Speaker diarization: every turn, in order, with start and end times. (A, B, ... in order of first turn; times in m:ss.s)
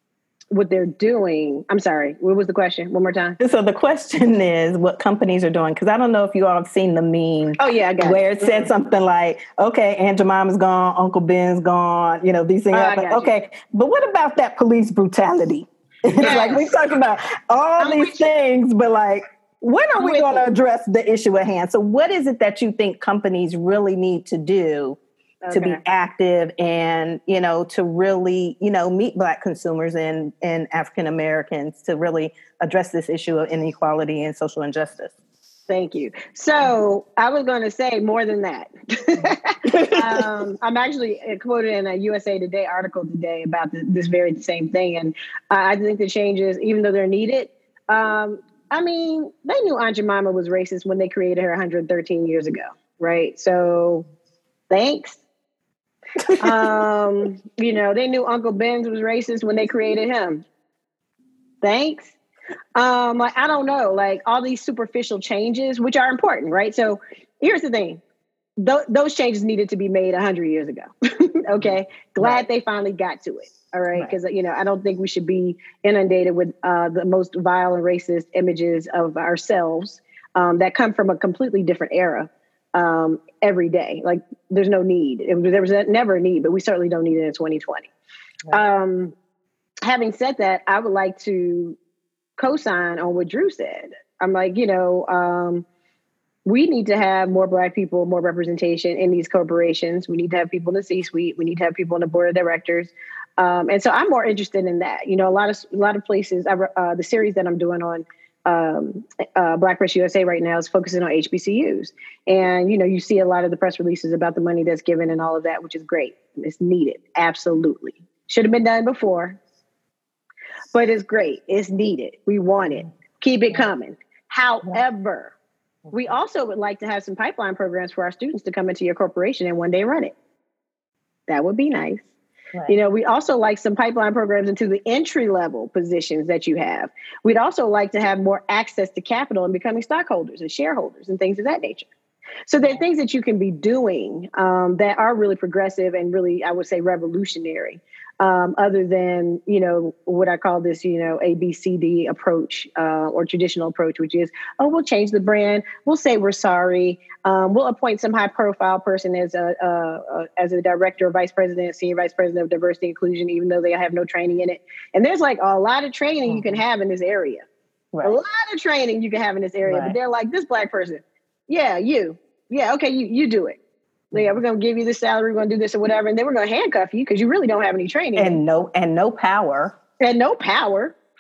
0:00.5-0:03.4 A
0:03.4-0:25.0 B
0:07.6-0:08.7 A
0:12.7-0:13.3 A
0:16.2-0:16.7 A
0:17.8-0:18.3 A
0:20.0-0:20.5 A
0:25.4-0:25.8 A
0:25.5-0:35.1 B
0:35.7-0:54.1 A
0:39.7-0:40.2 B
0:54.7-0:55.2 A
0:56.2-0:56.7 B
0:56.4-1:00.4 A
1:01.6-1:02.1 A
1:02.8-1:08.0 A
1:08.6-1:27.9 A
1:28.5-1:29.1 A
1:29.8-1:31.8 A
1:32.4-1:35.6 A
1:36.4-1:59.4 A
2:00.7-2:05.3 A
2:02.6-2:02.9 B
2:05.9-2:06.1 B
2:05.9-2:10.2 A
2:11.3-2:12.0 A
2:12.7-2:21.9 A
2:22.5-2:47.4 A
2:46.3-2:46.6 B
2:47.9-2:48.2 B
2:48.0-2:53.6 A
2:49.6-2:50.0 B
2:54.1-2:58.4 A
2:58.2-2:59.8 B
3:00.0-3:01.0 A